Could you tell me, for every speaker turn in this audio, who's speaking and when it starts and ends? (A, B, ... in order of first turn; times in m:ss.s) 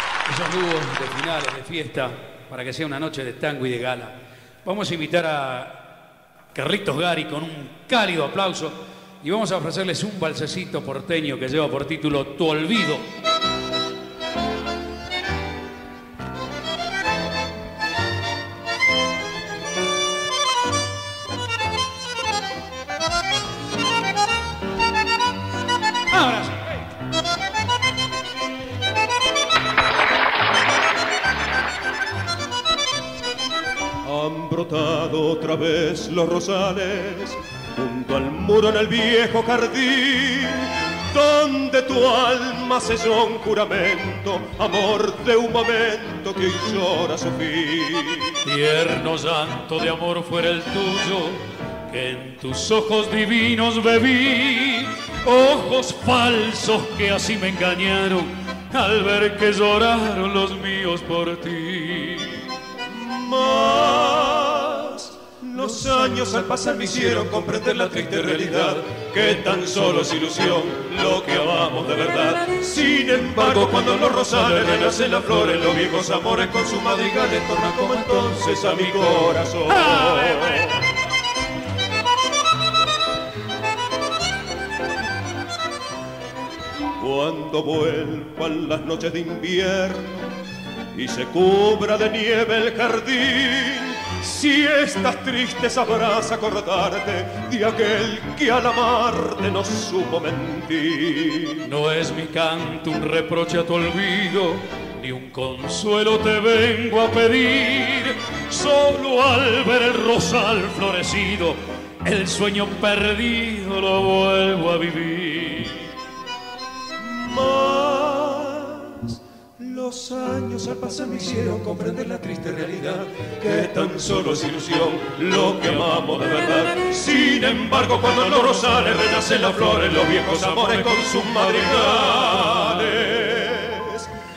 0:00.3-0:05.8 A
0:06.5-0:13.1 A
0:26.1-0:26.9 A
0:34.0-0:48.4 B
0:48.4-1:02.5 A
1:02.8-1:20.8 B
1:20.0-1:20.2 A
1:27.0-1:30.2 B
1:30.9-1:41.7 B
1:41.6-1:55.9 A
1:57.0-2:14.1 B